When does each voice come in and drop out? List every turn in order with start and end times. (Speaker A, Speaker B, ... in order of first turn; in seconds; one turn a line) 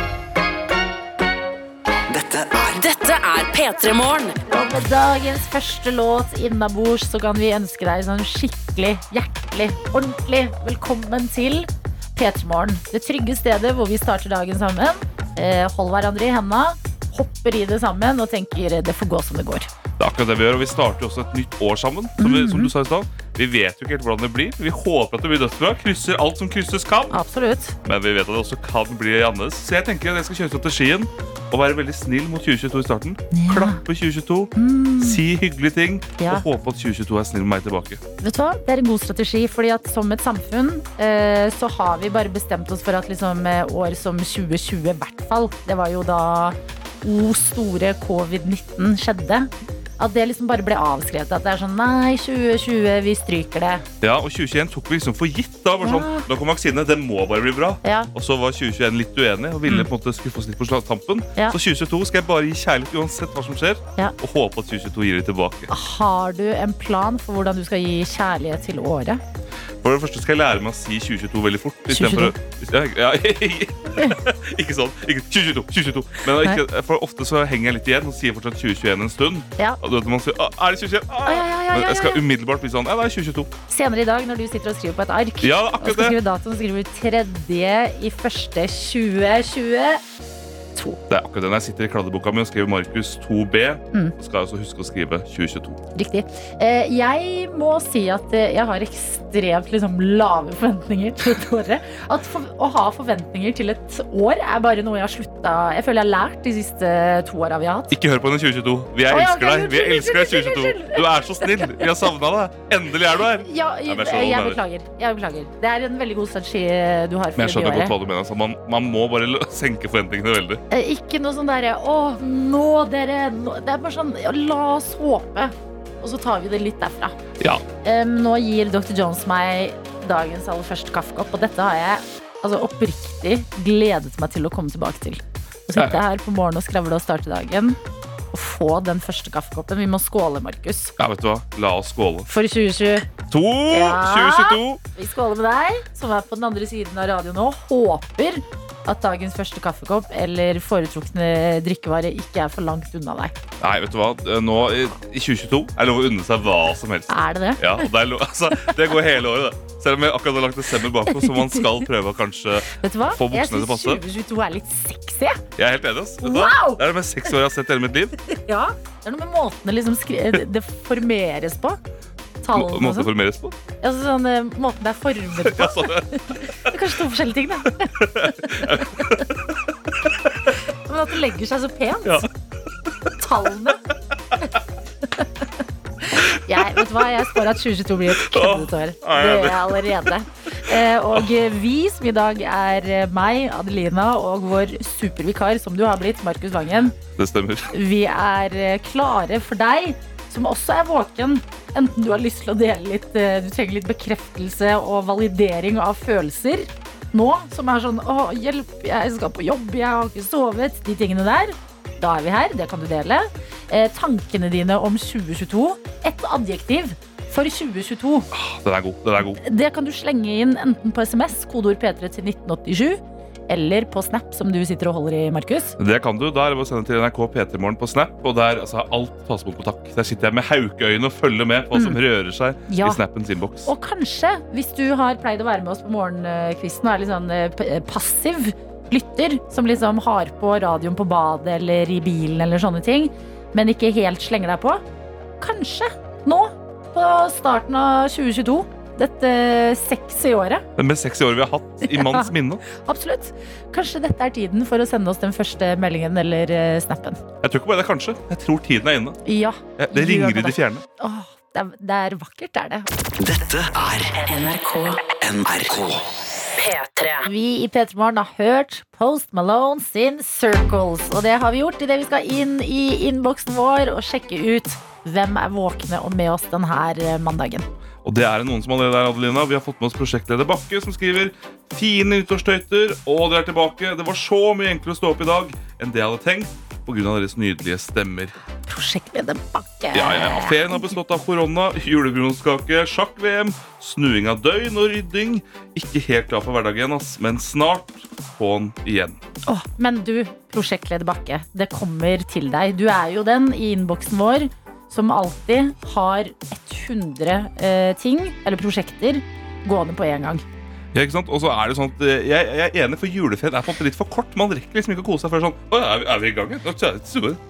Speaker A: 2.1-2.9
Speaker B: 2.8-4.4
Speaker C: 4.5-19.7
Speaker D: 20.0-27.1
Speaker C: 22.2-22.7
Speaker C: 27.1-27.8
Speaker D: 27.8-38.0
Speaker C: 33.3-33.8
Speaker C: 34.5-35.2
Speaker C: 36.2-36.4
Speaker C: 38.2-53.8
Speaker D: 54.0-65.7
Speaker C: 55.8-56.2
Speaker C: 57.8-58.1
Speaker C: 65.7-69.2
Speaker D: 69.8-83.5
Speaker C: 71.9-72.3
Speaker C: 81.2-82.2
Speaker C: 83.7-90.0
Speaker D: 85.4-86.2
Speaker C: 90.8-91.0
Speaker D: 91.1-95.8
Speaker C: 95.9-107.9
Speaker D: 107.9-114.6
Speaker C: 109.1-111.9
Speaker C: 113.3-117.9
Speaker D: 117.4-120.6
Speaker C: 120.7-127.2
Speaker C: 127.8-137.8
Speaker C: 138.3-140.9
Speaker D: 141.0-142.3
Speaker C: 142.3-143.1
Speaker D: 143.3-144.8
Speaker C: 143.7-153.3
Speaker D: 153.6-164.0
Speaker C: 157.1-157.9
Speaker C: 161.1-161.6
Speaker C: 162.7-165.4
Speaker D: 165.6-168.2
Speaker C: 166.2-166.8
Speaker C: 168.3-171.8
Speaker C: 172.4-173.1
Speaker D: 172.5-173.5
Speaker C: 173.8-179.3
Speaker D: 175.4-176.8
Speaker D: 177.9-179.2
Speaker C: 180.7-182.3
Speaker C: 183.2-183.8
Speaker C: 185.1-185.4
Speaker C: 186.0-196.9
Speaker D: 186.5-186.8
Speaker D: 188.1-190.1
Speaker D: 197.2-197.7
Speaker C: 197.7-218.3
Speaker D: 218.3-219.4
Speaker C: 219.4-225.8
Speaker D: 225.8-233.7
Speaker C: 231.7-232.0
Speaker C: 232.7-233.0
Speaker C: 233.6-244.8
Speaker C: 245.4-250.7
Speaker D: 250.8-252.6
Speaker C: 251.8-257.2
Speaker D: 257.4-259.2
Speaker C: 259.2-262.9
Speaker D: 259.8-260.8
Speaker A: 263.2-264.1
Speaker B: 264.2-265.1
Speaker A: 265.2-266.2
Speaker B: 266.6-267.3
Speaker C: 267.2-277.7
Speaker D: 278.0-288.4
Speaker C: 288.6-291.0
Speaker D: 289.9-299.2
Speaker C: 299.4-310.4
Speaker D: 310.9-317.4